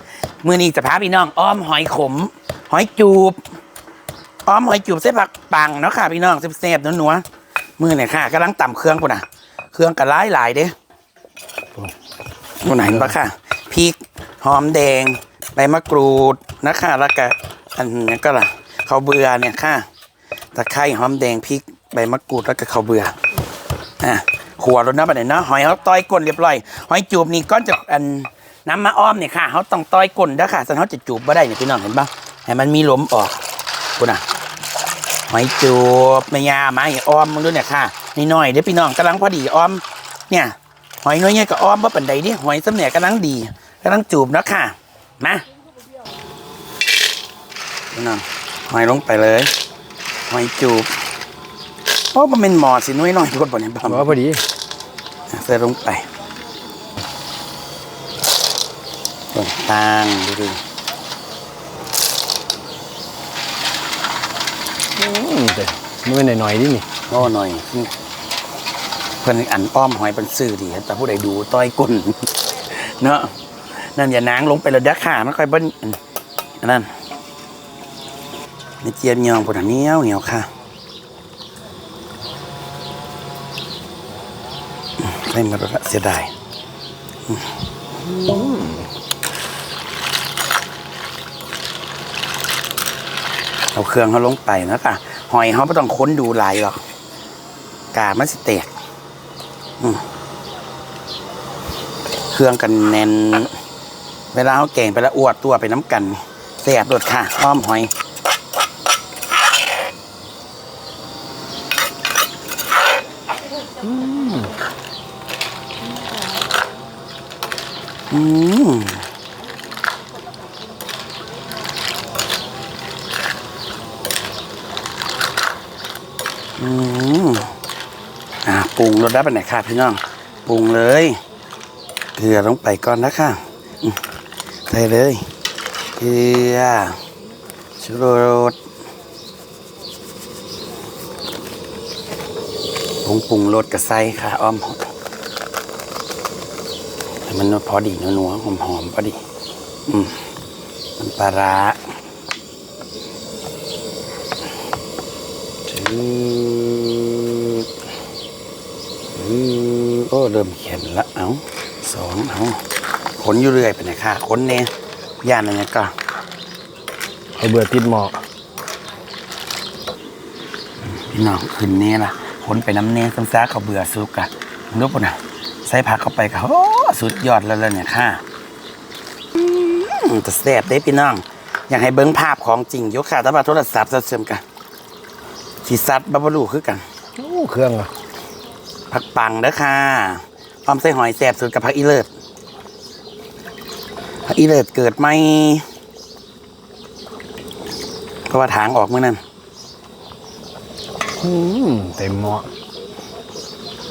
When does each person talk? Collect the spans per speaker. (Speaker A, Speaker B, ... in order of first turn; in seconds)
Speaker A: 0.4-3.4, 4.5-7.2, 7.8-10.7, 12.6-19.9, 20.6-23.2, 24.0-33.4, 34.0-34.2, 35.3-45.5, 47.9-49.5, 50.3-50.9, 52.1-54.2, 55.3-56.1, 59.3-60.6, 67.1-67.9, 69.2-76.0, 76.6-76.9, 78.8-80.5, 85.0-86.3, 93.7-96.8, 97.9-98.7, 102.3-103.5, 104.3-107.9, 113.8-114.5, 118.1-119.0, 126.6-127.5, 128.4-131.2, 132.2-134.0, 134.7-135.2, 136.0-137.0, 137.8-138.6, 143.0-144.9, 147.3-149.2, 149.9-150.3, 151.0-151.8, 155.7-157.7, 159.2-162.6, 163.2-165.9, 171.0-178.2, 179.3-184.4, 185.6-186.8, 188.9-192.1, 194.3-195.6, 198.3-199.2
Speaker B: 12.8-13.1, 53.9-54.4, 65.0-66.9, 167.4-168.2, 187.2-187.9, 201.2-202.5